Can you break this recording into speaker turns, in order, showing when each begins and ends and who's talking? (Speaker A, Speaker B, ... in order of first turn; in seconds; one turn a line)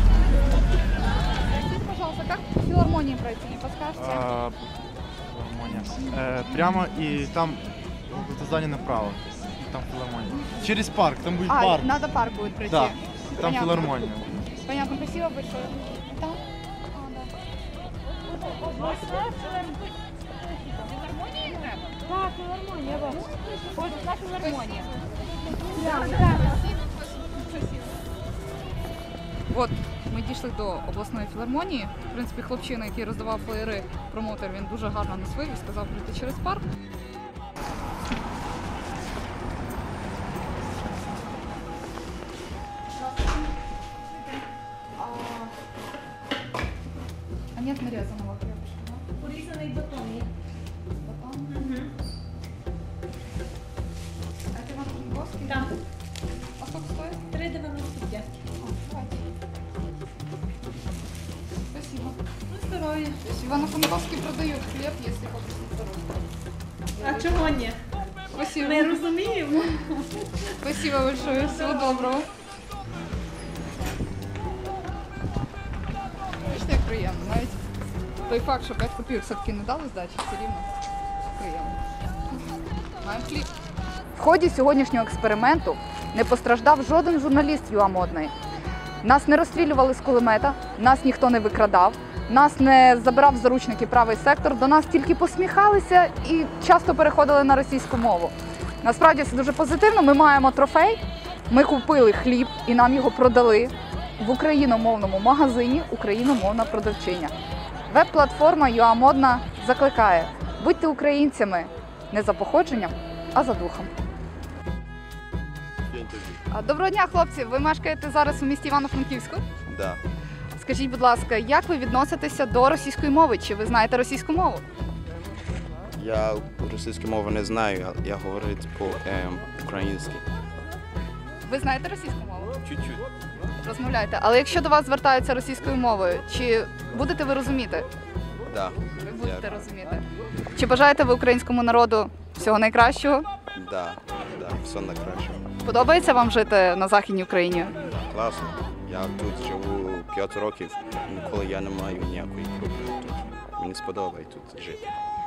Speaker A: 1.5-4.3
Speaker B: 4.0-11.9
Speaker A: 11.5-14.0
Speaker B: 12.7-14.5
Speaker A: 14.6-17.3
Speaker C: 18.5-19.8
Speaker A: 20.7-21.9
Speaker C: 22.1-23.3
Speaker A: 23.7-25.1
Speaker C: 25.6-26.7
Speaker A: 25.7-26.8
Speaker A: 29.5-36.6
Speaker A: 43.0-43.5
Speaker A: 45.0-45.5
Speaker A: 47.5-49.0
Speaker C: 49.2-50.3
Speaker A: 51.0-51.6
Speaker C: 51.5-51.9
Speaker A: 54.5-55.7
Speaker C: 55.5-55.7
Speaker A: 56.6-57.2
Speaker C: 57.3-58.3
Speaker A: 58.6-59.2
Speaker A: 61.7-62.2
Speaker C: 62.5-63.2
Speaker A: 63.2-66.2
Speaker C: 67.0-67.8
Speaker A: 67.0-67.3
Speaker A: 68.3-69.0
Speaker C: 68.5-70.1
Speaker A: 70.6-72.3
Speaker C: 71.3-72.1
Speaker A: 76.4-77.6
Speaker A: 78.3-80.7
Speaker A: 81.3-81.8
Speaker A: 83.0-83.5
Speaker A: 84.2-88.3
Speaker A: 89.0-107.3
Speaker A: 107.9-113.9
Speaker D: 115.9-116.4
Speaker A: 116.5-119.5
Speaker D: 119.7-120.0
Speaker A: 120.6-124.6
Speaker D: 126.0-130.2
Speaker A: 131.4-132.5
Speaker D: 132.6-133.1
Speaker A: 133.6-137.9
Speaker D: 138.5-139.5
Speaker A: 139.0-143.3
Speaker D: 143.6-145.4
Speaker A: 145.7-147.7
Speaker D: 147.9-154.8